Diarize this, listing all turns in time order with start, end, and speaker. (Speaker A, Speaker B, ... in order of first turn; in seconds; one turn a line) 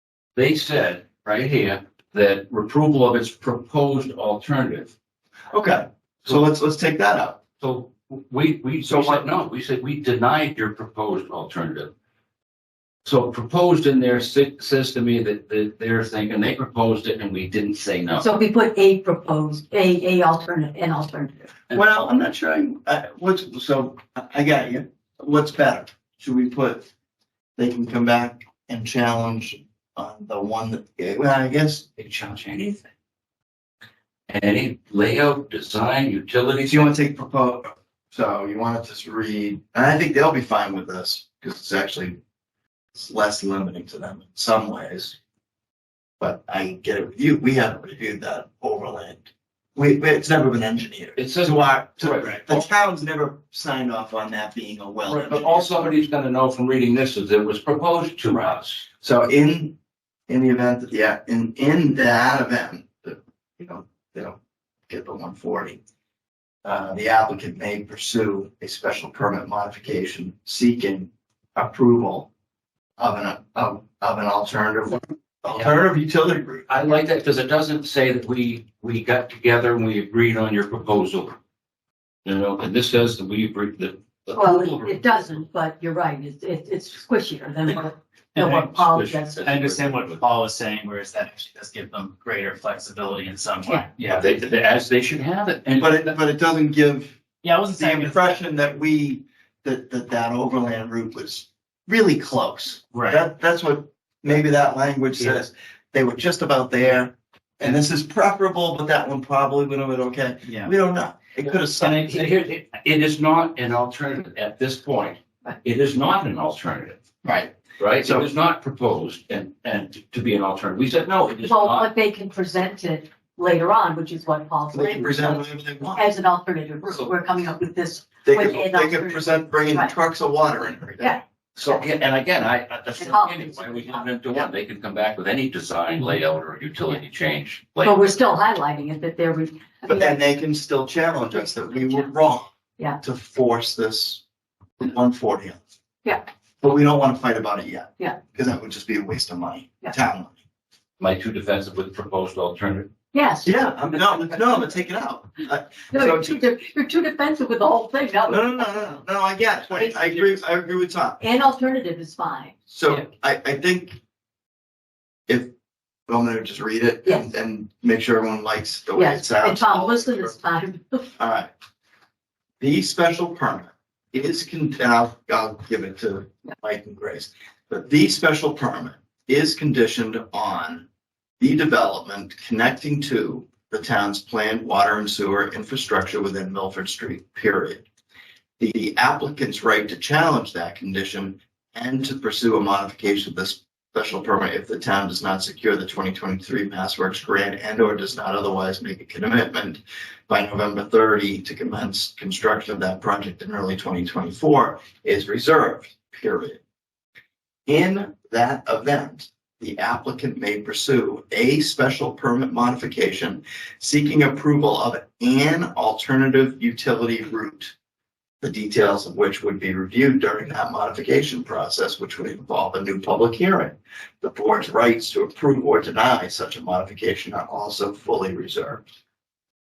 Speaker A: 0.3-5.0
Speaker B: 5.5-7.4
Speaker A: 7.6-11.9
Speaker B: 8.8-9.3
Speaker A: 13.0-18.3
Speaker C: 18.2-21.3
Speaker B: 21.7-26.9
Speaker B: 27.6-31.9
Speaker A: 32.0-32.9
Speaker A: 34.3-37.0
Speaker B: 36.7-42.2
Speaker B: 42.9-45.2
Speaker B: 46.2-55.9
Speaker A: 51.2-52.7
Speaker A: 55.1-58.8
Speaker B: 59.0-59.8
Speaker B: 60.3-64.4
Speaker B: 64.9-65.8
Speaker B: 66.6-72.3
Speaker B: 73.0-76.7
Speaker A: 76.7-81.4
Speaker A: 82.2-85.4
Speaker C: 84.3-89.4
Speaker D: 88.4-88.9
Speaker A: 88.8-90.2
Speaker D: 89.4-94.4
Speaker A: 94.0-96.2
Speaker B: 95.8-97.2
Speaker D: 97.4-98.4
Speaker B: 97.8-112.1
Speaker D: 110.4-110.7
Speaker A: 111.8-117.0
Speaker B: 117.2-118.3
Speaker A: 117.8-121.9
Speaker C: 121.4-129.9
Speaker B: 124.7-126.1
Speaker B: 128.2-131.2
Speaker C: 131.0-131.8
Speaker A: 131.6-138.0
Speaker C: 133.0-134.1
Speaker C: 137.8-140.2
Speaker B: 139.9-144.2
Speaker C: 141.3-142.1
Speaker B: 144.8-145.6
Speaker B: 146.6-150.4
Speaker A: 151.0-152.9
Speaker C: 153.1-153.6
Speaker B: 153.5-156.4
Speaker C: 155.9-158.9
Speaker B: 158.3-161.2
Speaker C: 159.8-160.3
Speaker C: 161.2-162.5
Speaker B: 162.7-164.0
Speaker B: 166.1-170.3
Speaker C: 169.0-171.1
Speaker B: 171.2-171.5
Speaker B: 172.6-180.8
Speaker B: 181.4-187.8
Speaker B: 188.6-206.6
Speaker B: 207.7-217.7
Speaker B: 218.4-228.8